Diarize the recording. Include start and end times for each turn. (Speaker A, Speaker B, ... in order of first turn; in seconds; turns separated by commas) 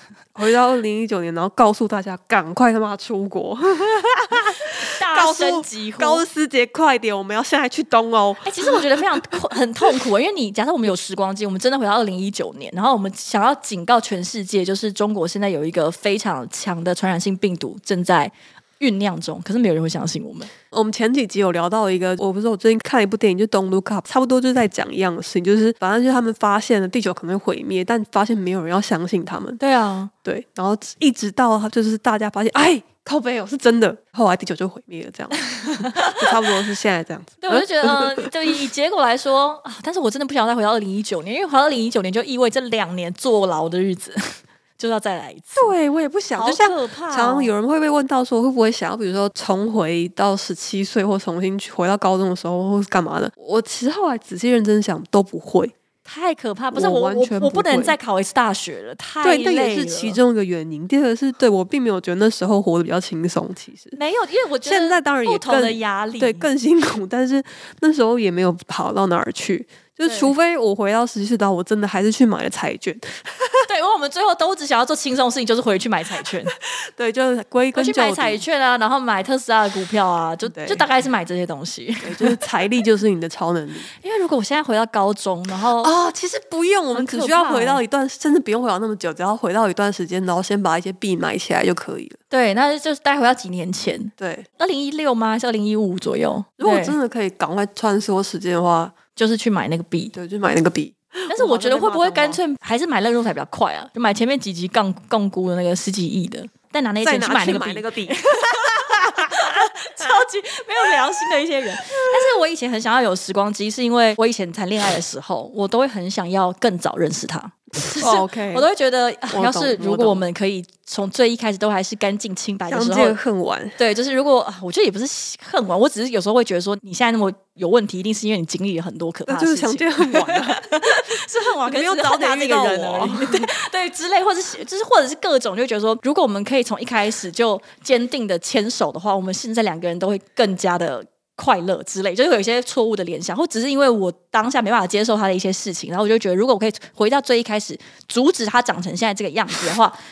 Speaker A: 0.3-9.0, Speaker B: 4.6-6.2, Speaker B: 8.4-20.5, Speaker A: 20.7-29.6, Speaker B: 29.6-30.1, Speaker A: 30.2-38.3, Speaker B: 35.9-36.2, Speaker B: 37.4-45.7, Speaker A: 45.5-55.7, Speaker B: 46.4-47.5, Speaker B: 56.0-60.2, Speaker A: 56.7-58.0, Speaker A: 59.2-64.0, Speaker B: 63.9-66.5, Speaker A: 64.6-73.7, Speaker B: 70.0-70.3, Speaker B: 73.7-76.5, Speaker A: 76.5-78.4, Speaker B: 77.7-82.4, Speaker A: 80.5-80.8, Speaker A: 82.0-83.9, Speaker B: 84.0-85.9, Speaker A: 85.8-92.2, Speaker B: 86.9-87.8, Speaker B: 92.3-97.0, Speaker A: 94.2-94.5, Speaker A: 96.6-99.0, Speaker B: 99.1-100.1, Speaker A: 100.1-102.4, Speaker B: 101.3-123.2, Speaker A: 107.0-110.2, Speaker A: 111.8-112.2, Speaker A: 117.9-118.7, Speaker A: 119.3-120.2, Speaker A: 122.7-123.8, Speaker B: 123.8-150.0, Speaker A: 129.3-133.5